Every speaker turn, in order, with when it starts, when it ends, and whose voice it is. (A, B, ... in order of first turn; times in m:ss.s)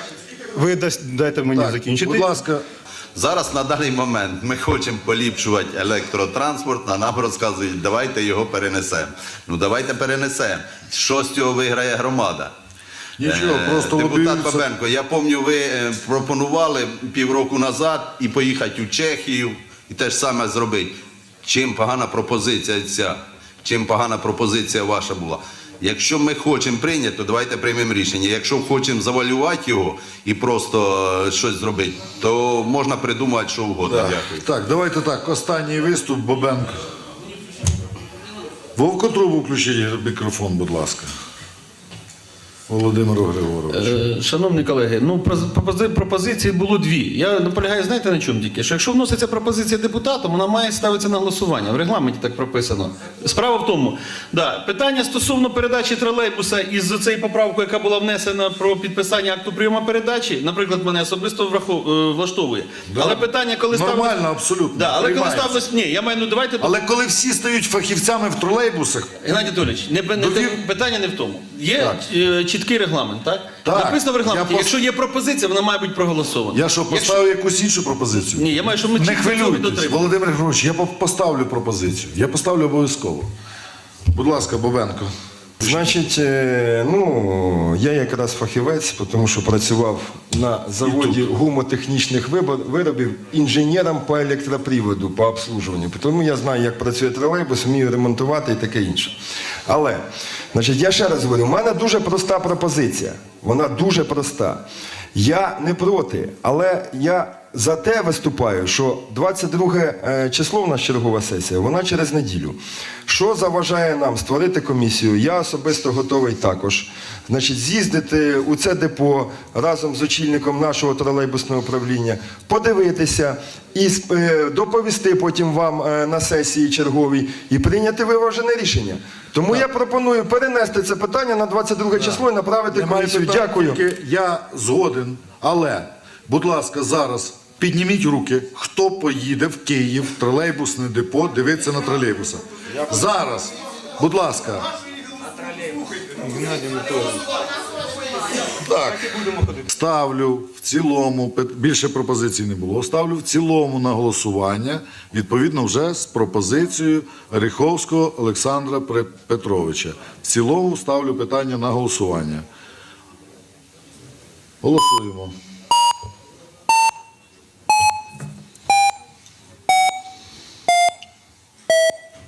0:00.4-0:02.3 A
0:01.5-0:02.6 B
0:03.1-0:12.5 C
0:13.2-0:14.6 B
0:13.2-0:34.4 C
0:33.8-0:36.7 B
0:38.8-0:41.1 B
0:42.7-0:44.0 B
0:43.9-1:04.0 D
1:02.9-1:05.6 B
1:04.8-1:06.7 D
1:06.6-1:09.1 B
1:09.2-1:17.1 D
1:10.1-1:10.6 B
1:11.8-1:12.0 B
1:13.6-1:14.8 B
1:16.5-1:23.3 B
1:18.4-1:20.0 D
1:24.1-1:25.9 B
1:25.6-1:39.1 E
1:30.8-1:31.2 B
1:39.7-1:44.6 E
1:45.1-2:13.8 E
2:12.7-2:24.7 B
2:26.2-2:27.2 A
2:28.6-2:42.4 B
2:44.6-2:45.3 B